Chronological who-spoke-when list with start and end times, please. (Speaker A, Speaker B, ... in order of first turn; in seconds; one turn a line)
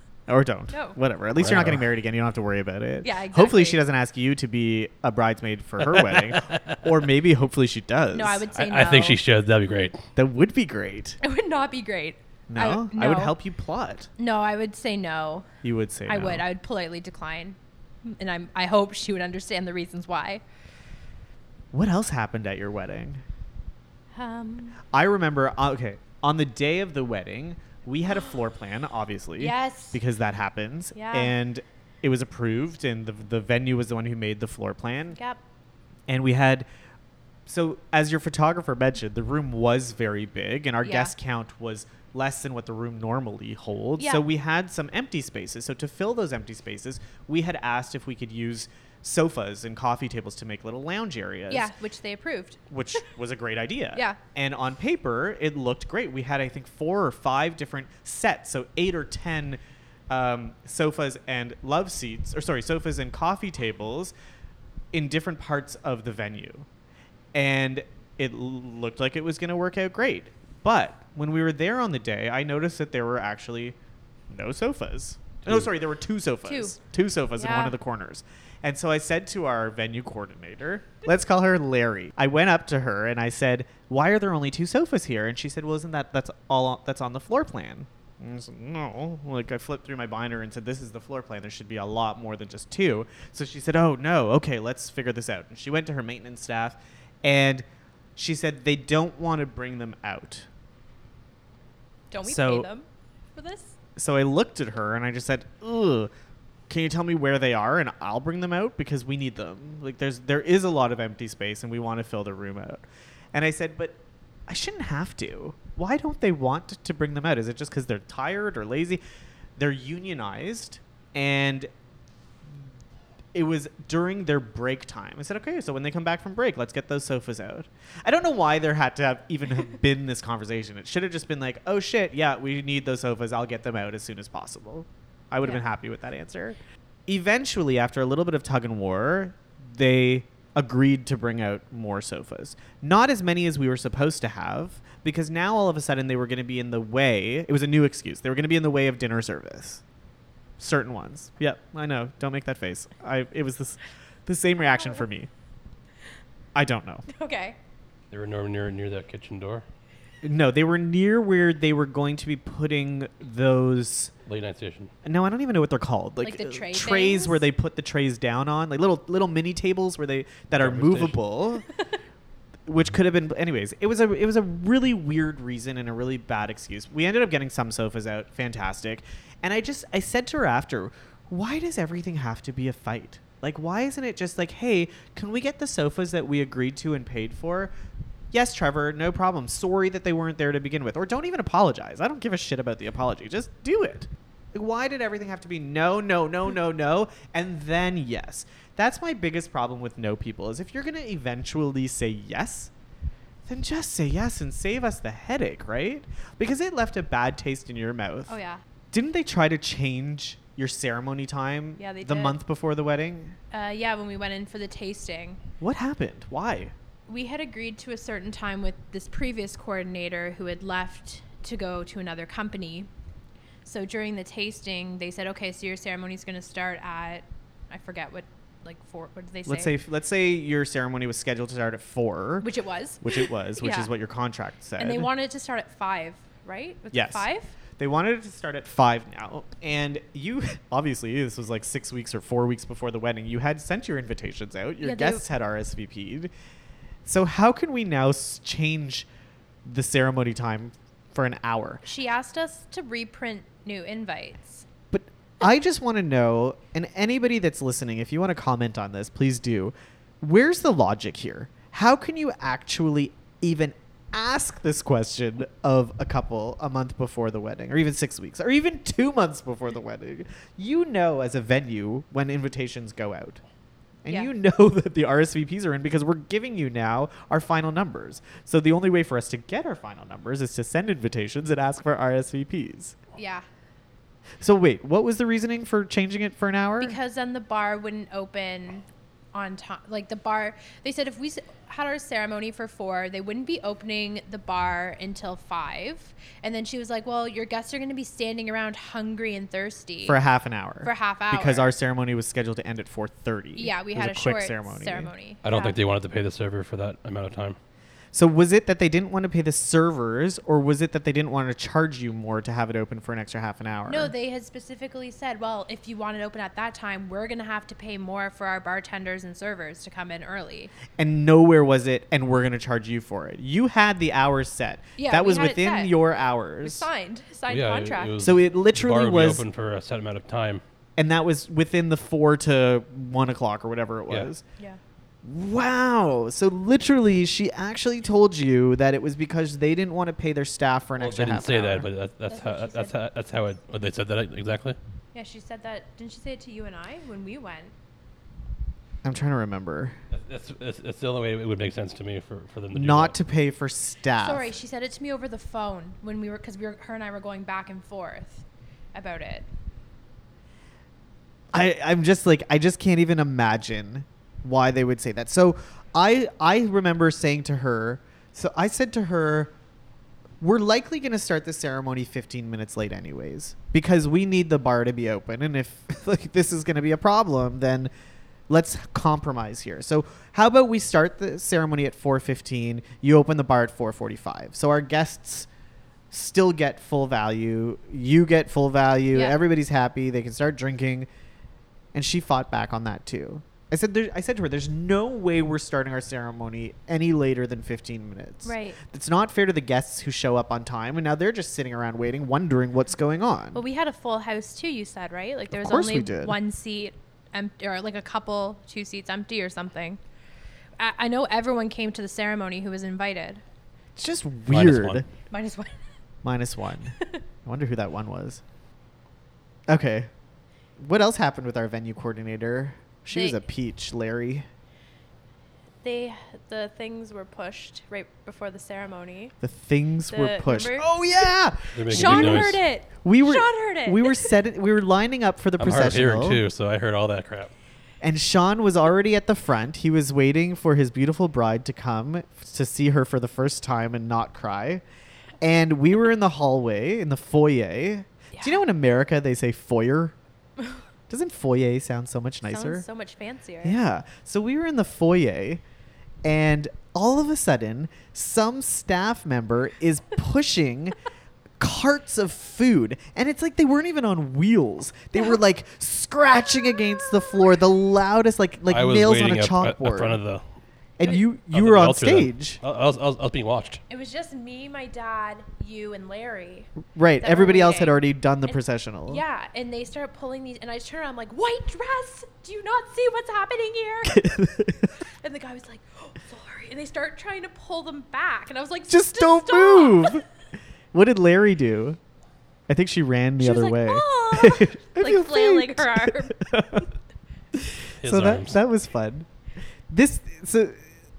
Speaker A: 0.3-8.5
Speaker B: 0.7-1.0
Speaker C: 1.4-1.9
Speaker B: 3.0-3.8
Speaker C: 5.9-6.8
Speaker B: 8.1-9.2
Speaker C: 8.5-10.0
Speaker A: 10.2-11.2
Speaker B: 11.2-13.3
Speaker A: 12.5-14.1
Speaker B: 14.2-15.5
Speaker A: 15.6-16.4
Speaker B: 16.1-20.4
Speaker A: 21.7-23.2
Speaker B: 24.1-24.8
Speaker A: 24.9-35.2
Speaker B: 29.4-30.0
Speaker B: 30.9-31.3
Speaker B: 35.1-35.4
Speaker A: 36.1-36.6
Speaker A: 37.5-51.7
Speaker B: 40.8-41.1
Speaker B: 44.0-44.2
Speaker B: 51.5-52.6
Speaker A: 52.7-64.1
Speaker B: 53.9-54.2
Speaker A: 64.9-66.7
Speaker A: 67.3-73.8
Speaker A: 74.3-97.6
Speaker B: 76.5-76.8
Speaker B: 77.3-77.8
Speaker A: 98.2-100.5
Speaker B: 102.1-103.8
Speaker A: 102.2-102.7
Speaker A: 104.0-106.1
Speaker A: 106.7-119.0
Speaker A: 119.6-121.7
Speaker A: 123.3-149.8
Speaker A: 150.6-155.3
Speaker A: 156.5-157.0
Speaker B: 157.1-157.6
Speaker C: 158.1-159.6
Speaker A: 160.2-164.1
Speaker C: 164.2-164.9
Speaker A: 165.0-171.7
Speaker B: 166.2-167.4
Speaker C: 170.6-171.2
Speaker A: 172.7-187.7
Speaker A: 188.3-202.7
Speaker A: 203.4-208.3
Speaker B: 208.3-208.6
Speaker A: 208.9-213.4
Speaker B: 211.8-212.4
Speaker B: 213.5-215.4
Speaker A: 215.6-216.7
Speaker B: 217.1-222.9
Speaker B: 223.6-229.7
Speaker A: 229.4-232.5
Speaker B: 232.4-233.9
Speaker A: 233.0-235.1
Speaker B: 234.8-237.5
Speaker A: 236.9-246.3
Speaker B: 244.8-245.2
Speaker A: 247.0-249.1
Speaker A: 249.6-251.8
Speaker B: 251.8-254.7
Speaker A: 254.9-273.4
Speaker A: 274.0-282.9
Speaker B: 283.1-283.4
Speaker A: 284.4-286.9
Speaker B: 286.8-300.2
Speaker A: 300.0-305.1
Speaker B: 300.8-301.7
Speaker B: 303.6-305.8
Speaker C: 305.4-307.6
Speaker A: 308.1-314.1
Speaker B: 313.9-320.7
Speaker A: 320.9-326.9
Speaker B: 325.0-326.0
Speaker B: 326.6-328.2
Speaker C: 327.5-330.6
Speaker A: 328.2-329.4
Speaker A: 331.0-334.4
Speaker A: 335.2-341.9
Speaker C: 341.0-344.8
Speaker B: 342.3-342.9
Speaker B: 345.1-347.7
Speaker A: 349.0-349.9
Speaker C: 350.1-353.1
Speaker A: 352.7-354.5
Speaker B: 354.2-359.5
Speaker A: 361.5-369.5
Speaker A: 370.4-377.9
Speaker A: 378.5-385.5
Speaker A: 386.1-391.1
Speaker B: 389.1-389.4
Speaker A: 391.9-403.6
Speaker B: 398.4-398.8
Speaker B: 403.5-410.0
Speaker A: 405.5-406.4
Speaker B: 410.8-413.4
Speaker A: 413.9-415.1
Speaker C: 414.5-415.0
Speaker B: 415.3-415.8
Speaker A: 416.2-418.4
Speaker A: 419.7-420.1
Speaker A: 420.8-424.5
Speaker B: 423.1-423.4
Speaker B: 425.8-429.3
Speaker A: 429.4-436.4
Speaker B: 430.1-430.9
Speaker C: 431.7-432.6
Speaker B: 431.9-434.3
Speaker C: 435.6-437.5
Speaker A: 438.0-444.8
Speaker A: 445.4-450.1
Speaker B: 448.3-448.6
Speaker A: 451.1-452.9
Speaker B: 452.4-453.8
Speaker A: 453.6-455.6
Speaker A: 456.2-460.9
Speaker A: 461.6-470.2
Speaker C: 468.7-470.4
Speaker A: 471.0-472.6
Speaker C: 471.5-473.8
Speaker B: 473.9-484.4
Speaker A: 476.9-479.2
Speaker A: 484.1-484.9
Speaker B: 485.2-490.2
Speaker A: 488.9-490.2
Speaker A: 490.9-492.0
Speaker A: 492.7-496.9
Speaker B: 493.4-496.8
Speaker A: 497.5-499.3
Speaker C: 498.0-498.6
Speaker A: 499.9-500.8